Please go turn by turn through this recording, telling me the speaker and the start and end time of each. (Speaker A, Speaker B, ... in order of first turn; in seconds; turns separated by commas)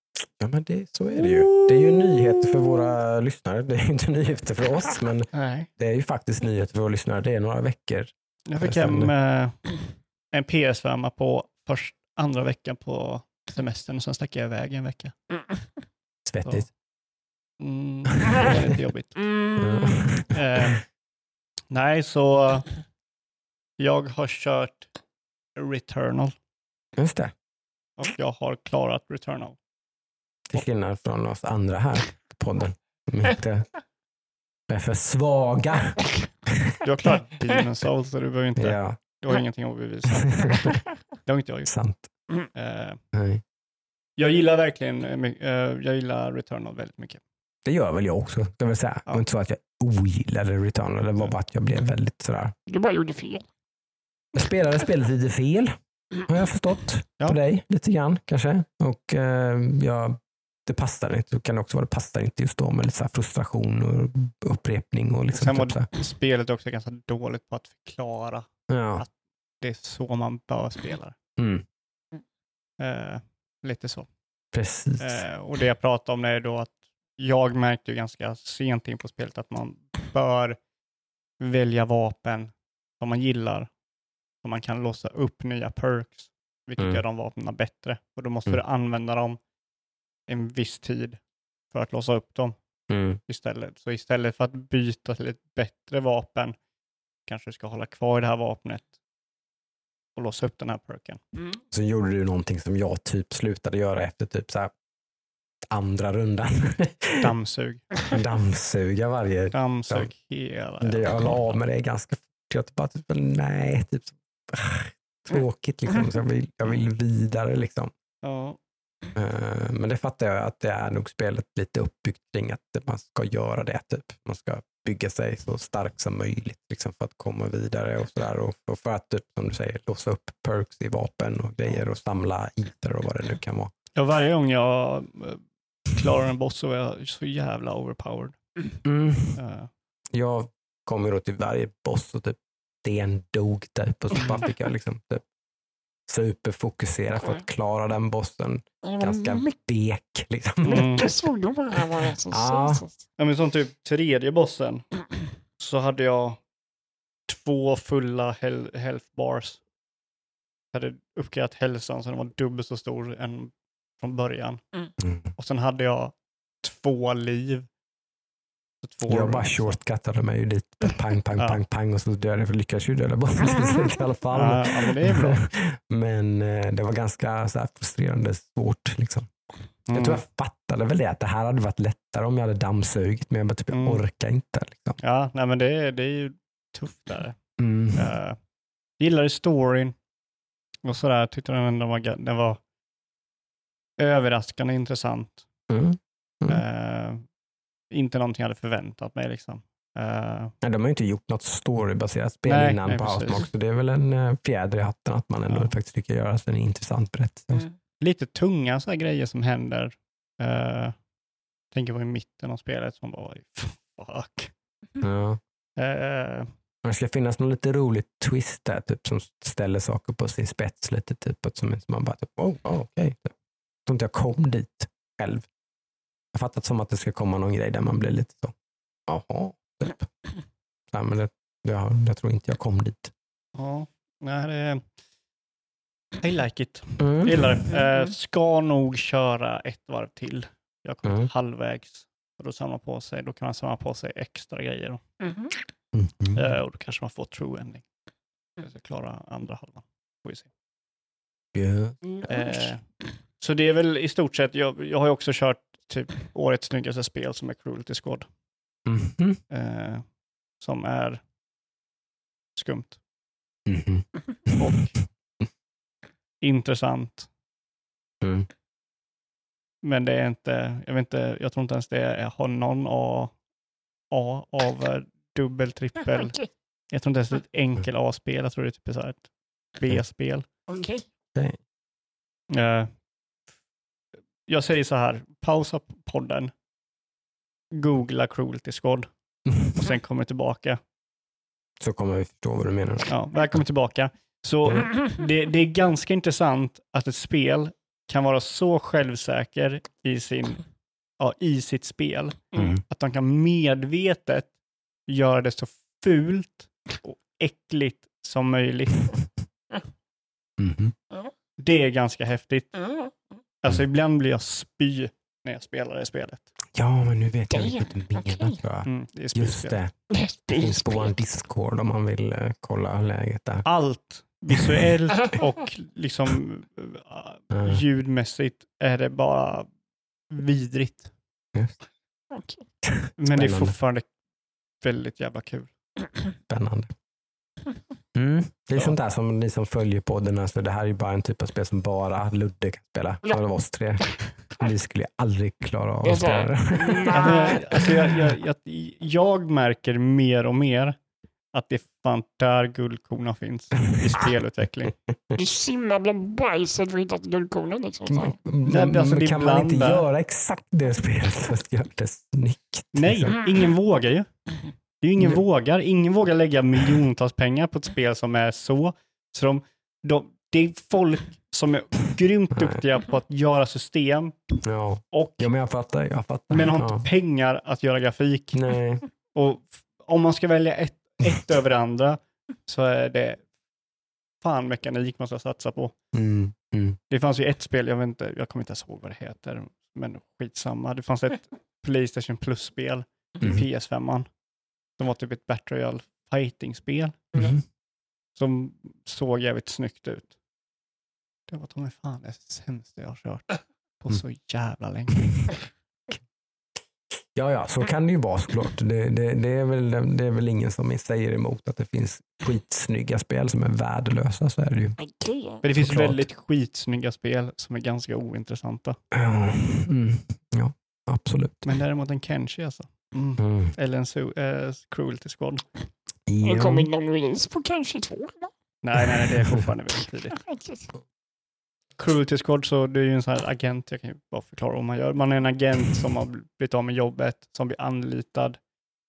Speaker A: 0.4-9.1, Speaker B: 5.3-5.7, Speaker B: 8.5-9.8, Speaker B: 10.3-15.2, Speaker A: 16.3-16.7, Speaker B: 17.6-19.2, Speaker C: 19.2-20.0, Speaker A: 19.6-20.6, Speaker B: 20.3-20.8, Speaker B: 21.7-22.7, Speaker B: 23.8-24.9, Speaker B: 25.6-26.4, Speaker A: 27.0-27.3, Speaker B: 28.0-29.6, Speaker A: 30.5-33.7, Speaker A: 34.7-36.8, Speaker B: 36.8-41.7, Speaker A: 38.6-39.0, Speaker A: 40.1-40.8, Speaker A: 41.7-42.0, Speaker B: 42.5-43.0, Speaker A: 43.1-43.4, Speaker B: 44.2-47.2, Speaker A: 47.6-52.5, Speaker C: 52.7-53.5, Speaker A: 54.3-55.8, Speaker A: 56.3-65.9, Speaker B: 65.3-71.2, Speaker A: 68.7-69.0, Speaker A: 71.4-71.7, Speaker B: 72.8-74.1, Speaker A: 74.5-75.2, Speaker B: 75.0-80.6, Speaker B: 81.4-83.7, Speaker B: 84.4-89.4, Speaker B: 90.3-91.2, Speaker B: 91.7-92.6, Speaker A: 92.9-93.2, Speaker B: 93.3-96.6, Speaker B: 97.3-98.9, Speaker B: 100.2-101.2, Speaker A: 101.7-104.7, Speaker A: 105.7-107.3, Speaker B: 107.2-107.9, Speaker A: 108.1-110.1, Speaker B: 109.5-111.5, Speaker A: 110.8-117.9, Speaker B: 118.2-118.6, Speaker A: 119.2-133.7, Speaker B: 134.0-138.4, Speaker A: 138.8-139.4, Speaker B: 139.4-139.7, Speaker A: 140.1-145.2, Speaker A: 146.1-151.1, Speaker C: 148.8-149.4, Speaker B: 150.6-151.1, Speaker C: 150.7-152.9, Speaker A: 152.3-152.8, Speaker B: 153.2-154.9, Speaker B: 155.6-156.4, Speaker B: 157.3-159.6, Speaker B: 160.7-164.6, Speaker A: 165.0-165.3, Speaker B: 165.4-167.7, Speaker B: 168.8-169.8, Speaker A: 169.1-179.3, Speaker B: 174.3-175.5, Speaker B: 179.9-180.2, Speaker A: 179.9-185.0, Speaker B: 183.7-184.0, Speaker B: 185.0-187.4, Speaker A: 187.6-188.1, Speaker B: 187.9-188.4, Speaker B: 189.0-189.9, Speaker B: 190.8-192.6, Speaker B: 194.0-195.5, Speaker A: 195.7-196.6, Speaker B: 196.5-197.2, Speaker B: 197.9-200.6, Speaker A: 200.6-207.7, Speaker B: 202.5-203.5, Speaker B: 208.0-211.0, Speaker B: 211.7-214.5, Speaker A: 215.0-215.4, Speaker B: 215.8-216.5, Speaker A: 216.8-223.3, Speaker A: 223.9-225.5, Speaker A: 226.3-228.6, Speaker A: 229.1-230.1, Speaker A: 230.9-233.1, Speaker B: 233.6-234.9, Speaker B: 236.2-245.0, Speaker A: 237.0-237.6, Speaker C: 245.2-245.6, Speaker A: 245.9-246.5, Speaker B: 246.3-247.9, Speaker B: 248.6-250.5, Speaker A: 251.5-252.0, Speaker C: 252.1-252.6, Speaker B: 252.3-252.8, Speaker B: 253.4-258.3, Speaker A: 258.9-259.4, Speaker B: 259.5-260.1, Speaker B: 260.6-261.2, Speaker B: 262.6-263.0, Speaker A: 263.7-264.7, Speaker B: 264.6-264.9, Speaker B: 266.4-267.3, Speaker A: 268.2-268.5, Speaker B: 269.8-273.4, Speaker B: 274.1-276.4, Speaker B: 276.9-280.5, Speaker C: 280.7-281.1, Speaker B: 282.5-282.9, Speaker B: 284.5-286.5, Speaker B: 287.7-289.1, Speaker B: 289.6-290.8, Speaker A: 291.8-293.1, Speaker B: 293.1-300.6, Speaker B: 301.2-304.5, Speaker A: 302.6-302.8, Speaker B: 305.1-309.1, Speaker A: 310.6-310.9, Speaker B: 311.6-312.7, Speaker C: 312.8-313.1, Speaker B: 313.6-316.5, Speaker A: 316.8-319.9, Speaker C: 317.5-318.6, Speaker B: 318.9-319.8, Speaker C: 320.1-321.1, Speaker A: 320.5-323.6, Speaker B: 323.6-329.7, Speaker A: 327.5-327.8, Speaker B: 330.3-331.1, Speaker C: 332.3-332.6, Speaker A: 332.9-333.8, Speaker B: 333.2-334.1, Speaker B: 334.8-335.7, Speaker A: 336.5-336.9, Speaker A: 338.1-347.9, Speaker C: 346.0-347.6, Speaker B: 347.1-351.0, Speaker B: 351.5-354.9, Speaker C: 355.4-358.4, Speaker A: 358.1-363.4, Speaker B: 358.6-360.0, Speaker B: 362.9-364.3, Speaker B: 365.0-374.4, Speaker A: 372.6-372.8, Speaker A: 374.6-377.1, Speaker B: 375.1-375.5, Speaker B: 376.5-378.8, Speaker A: 378.5-379.0, Speaker B: 379.3-383.4, Speaker B: 384.4-385.9, Speaker A: 386.1-387.0, Speaker B: 387.1-394.3, Speaker B: 395.0-397.2, Speaker A: 397.3-397.6, Speaker B: 398.4-400.3, Speaker B: 401.5-405.5, Speaker A: 407.4-415.0, Speaker C: 415.0-415.6, Speaker B: 415.6-419.0, Speaker A: 415.7-416.2, Speaker A: 419.1-421.6, Speaker B: 421.6-425.7, Speaker A: 423.4-423.7, Speaker A: 426.3-426.9, Speaker C: 426.4-428.5, Speaker B: 428.8-430.4, Speaker C: 430.4-430.9, Speaker B: 432.0-438.6